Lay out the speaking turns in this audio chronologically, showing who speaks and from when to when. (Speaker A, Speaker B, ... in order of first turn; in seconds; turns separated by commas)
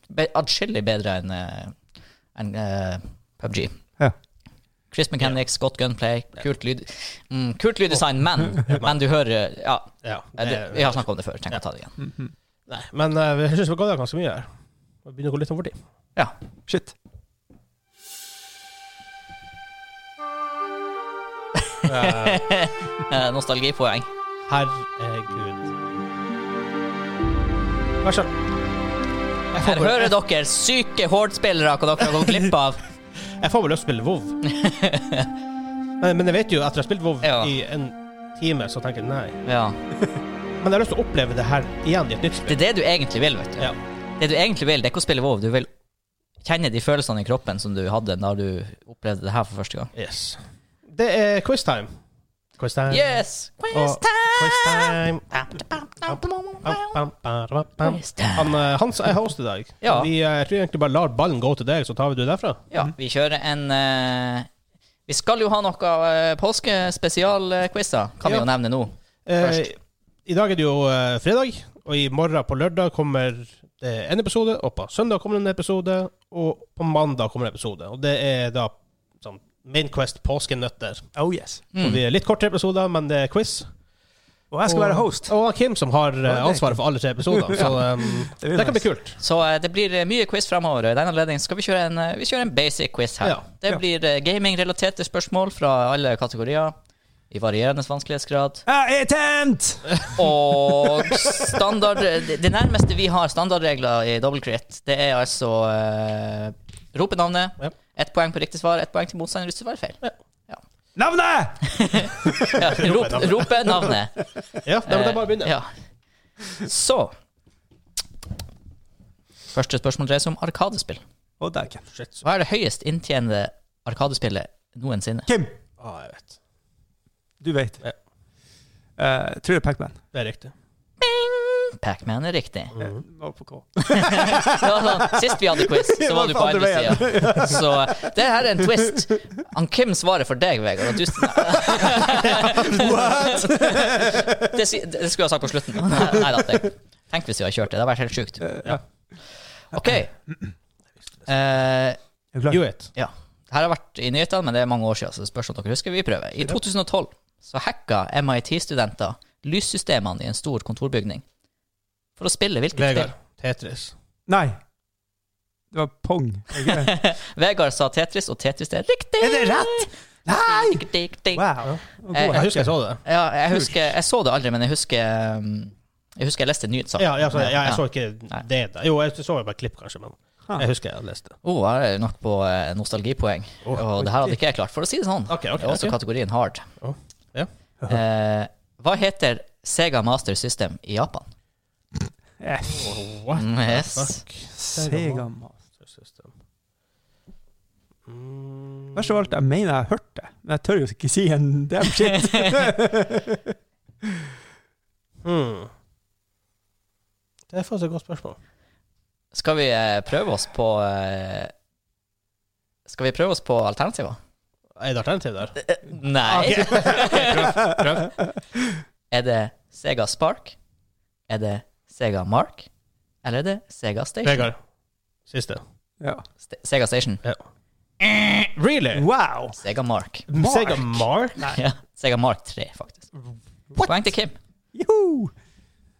Speaker A: 0.1-1.8, Speaker A: 2.4-3.8, Speaker A: 4.9-11.9, Speaker B: 8.6-8.9, Speaker B: 10.0-11.6, Speaker C: 12.0-12.3, Speaker B: 12.7-14.5, Speaker B: 15.1-15.8, Speaker C: 16.7-16.9, Speaker B: 21.9-22.4, Speaker A: 22.1-24.1, Speaker B: 24.5-25.7, Speaker B: 28.0-28.3, Speaker B: 29.5-30.1, Speaker A: 29.6-32.8, Speaker B: 33.4-34.4, Speaker A: 34.5-35.3, Speaker B: 36.0-39.4, Speaker A: 37.2-37.5, Speaker A: 39.5-39.8, Speaker B: 40.6-42.6, Speaker A: 42.5-45.7, Speaker A: 46.4-49.9, Speaker B: 50.0-51.9, Speaker B: 52.6-53.1, Speaker A: 52.9-57.0, Speaker B: 53.7-55.5, Speaker B: 56.1-62.6, Speaker A: 57.8-58.6, Speaker A: 59.8-60.1, Speaker A: 62.7-64.5, Speaker A: 65.1-69.6, Speaker B: 69.3-81.1, Speaker C: 81.2-81.6, Speaker A: 81.7-82.0, Speaker B: 81.8-83.7, Speaker C: 84.5-85.3, Speaker B: 84.7-89.2, Speaker C: 86.3-86.8, Speaker C: 87.3-87.7, Speaker C: 88.3-88.8, Speaker A: 89.2-96.8, Speaker A: 97.3-98.6, Speaker C: 98.7-100.0, Speaker A: 100.2-110.6, Speaker C: 111.0-112.8, Speaker A: 111.7-114.2, Speaker B: 112.6-113.5, Speaker B: 114.6-115.5, Speaker A: 114.9-115.7, Speaker A: 116.6-117.1, Speaker A: 119.5-121.0, Speaker C: 121.4-121.8, Speaker B: 121.9-122.2, Speaker A: 122.2-125.3, Speaker C: 125.3-125.5, Speaker B: 125.8-126.4, Speaker C: 127.4-127.8, Speaker C: 129.0-130.0, Speaker B: 130.1-130.5, Speaker A: 131.0-132.8, Speaker B: 132.7-133.0, Speaker C: 133.1-138.1, Speaker A: 133.8-148.6, Speaker C: 138.6-138.9, Speaker C: 141.2-144.6, Speaker C: 145.9-146.4, Speaker A: 149.7-150.1, Speaker C: 149.8-150.5, Speaker A: 151.3-152.0, Speaker C: 152.3-152.6, Speaker B: 152.5-152.9, Speaker A: 152.9-161.2, Speaker A: 162.2-163.1, Speaker B: 162.8-163.9, Speaker C: 164.3-164.6, Speaker C: 165.7-167.0, Speaker A: 166.6-171.6, Speaker C: 169.2-172.7, Speaker A: 172.1-172.5, Speaker B: 172.3-173.0, Speaker A: 173.0-177.8, Speaker B: 177.0-181.3, Speaker A: 181.4-186.7, Speaker C: 184.0-184.3, Speaker B: 185.3-186.0, Speaker B: 186.8-187.5, Speaker A: 187.9-191.3, Speaker C: 192.4-193.0, Speaker B: 192.7-195.3, Speaker A: 193.4-194.2, Speaker C: 194.6-195.6, Speaker B: 195.8-196.3, Speaker B: 198.1-199.1, Speaker C: 198.9-203.5, Speaker B: 205.2-205.7, Speaker B: 207.5-208.4, Speaker A: 209.3-211.5, Speaker A: 212.9-214.2, Speaker B: 214.8-215.6, Speaker A: 215.6-217.7, Speaker B: 216.2-218.1, Speaker A: 219.1-220.6, Speaker A: 221.3-222.7, Speaker A: 223.2-224.5, Speaker B: 224.2-224.6, Speaker B: 225.3-225.6, Speaker A: 226.5-227.2, Speaker B: 228.1-229.1, Speaker C: 228.9-229.6, Speaker A: 229.6-230.3, Speaker B: 230.3-231.6, Speaker C: 230.3-231.6, Speaker A: 231.5-233.1, Speaker A: 233.8-234.4, Speaker C: 234.7-235.3